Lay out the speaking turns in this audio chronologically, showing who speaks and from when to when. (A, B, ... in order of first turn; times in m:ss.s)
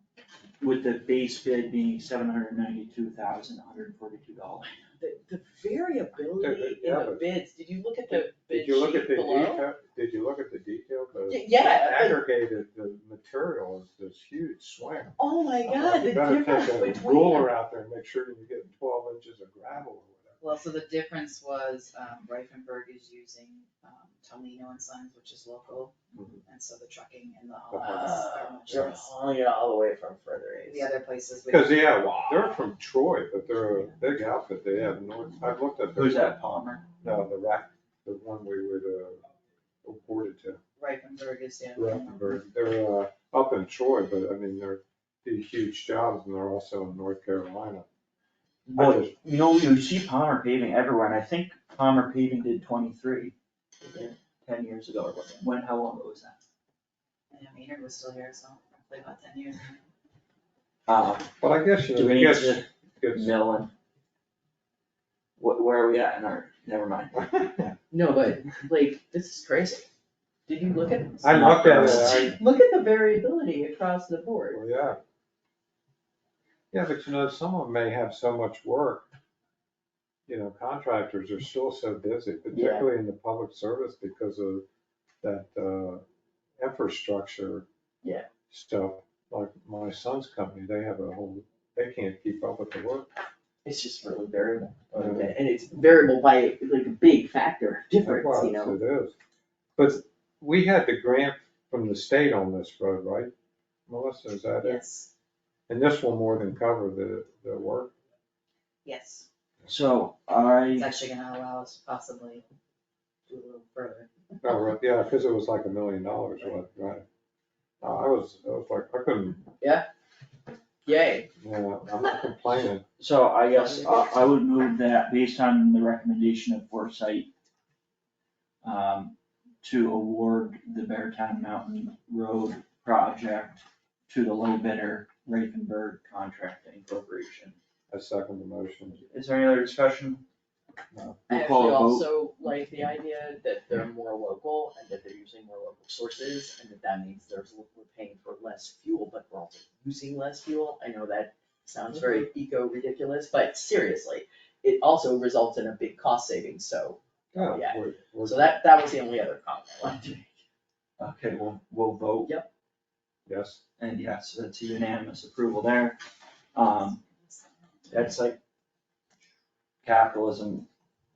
0:00.6-0:04.7 A
0:05.0-0:09.7 B
0:06.4-0:07.3 C
0:08.1-0:20.4 C
0:11.3-0:12.2 B
0:15.2-0:17.5 B
0:20.4-0:25.9 D
0:26.1-0:26.4 C
0:26.4-0:29.1 D
0:27.7-0:28.3 C
0:27.9-0:30.9 B
0:30.6-0:32.3 D
0:31.5-0:36.4 C
0:35.9-0:36.8 A
0:37.0-0:39.2 C
0:39.8-0:40.6 C
0:40.8-0:42.4 D
0:41.8-0:47.8 C
0:48.7-0:49.1 C
0:48.7-0:53.3 A
0:54.4-0:56.4 A
0:57.3-0:59.8 D
1:00.9-1:01.3 A
1:01.4-1:03.3 C
1:01.9-1:03.7 A
1:05.4-1:07.4 A
1:07.2-1:07.7 C
1:07.9-1:09.9 B
1:10.5-1:14.6 B
1:11.2-1:12.4 C
1:11.3-1:12.4 A
1:14.5-1:15.0 C
1:16.7-1:19.1 C
1:20.3-1:24.6 C
1:22.5-1:22.9 B
1:25.2-1:26.0 C
1:26.6-1:27.6 C
1:28.5-1:33.1 C
1:33.6-1:38.8 B
1:34.9-1:35.3 C
1:38.0-1:39.1 C
1:39.8-1:43.3 C
1:43.9-1:44.8 C
1:44.6-1:45.1 D
1:45.7-1:47.9 C
1:48.8-1:49.2 D
1:49.7-1:50.9 A
1:50.7-1:52.4 D
1:53.3-1:54.5 D
1:54.4-1:57.0 C
1:57.8-1:59.5 C
1:59.6-1:59.8 B
2:00.8-2:01.3 B
2:01.4-2:02.8 C
2:03.0-2:07.3 A
2:08.6-2:17.6 A
2:17.9-2:19.0 C
2:19.0-2:20.2 A
2:20.9-2:21.2 C
2:21.3-2:22.1 A
2:21.3-2:40.4 B
2:31.9-2:32.2 C
2:37.3-2:38.4 C
2:41.0-2:42.3 A
2:43.3-2:43.6 C
2:43.8-2:46.0 A
2:46.5-2:47.0 A
2:47.9-2:48.4 A
2:49.8-2:50.7 A